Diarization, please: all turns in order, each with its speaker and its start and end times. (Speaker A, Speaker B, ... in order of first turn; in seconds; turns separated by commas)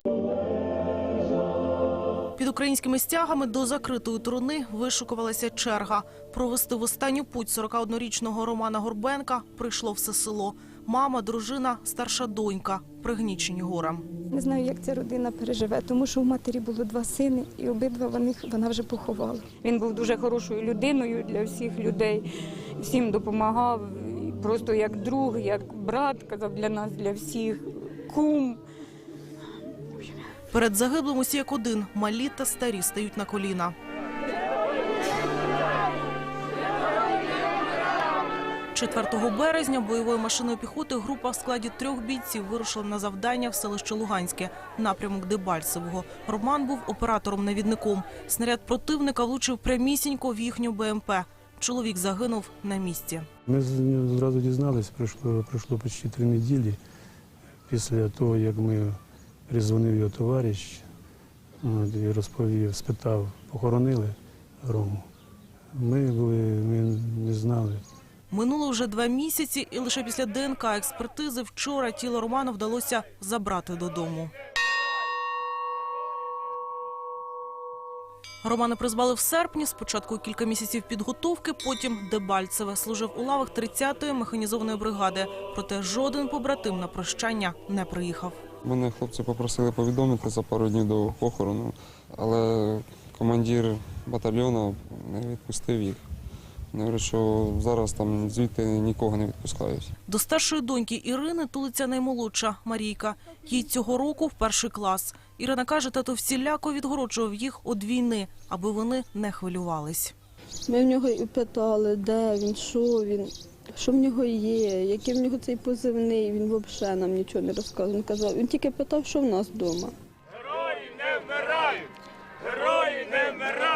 Speaker A: 2.4-14.1, Speaker B: 14.3-19.6, Speaker C: 19.6-22.3, Speaker C: 22.8-28.6, Speaker A: 30.5-33.7, Speaker A: 38.7-53.3, Speaker D: 53.5-56.8, Speaker D: 57.7-59.0, Speaker D: 59.5-60.9, Speaker D: 61.6-65.0, Speaker D: 65.7-67.8, Speaker A: 68.3-74.3, Speaker A: 78.4-88.4, Speaker E: 88.6-96.0, Speaker E: 96.7-99.9, Speaker A: 100.1-110.1, Speaker F: 110.7-119.9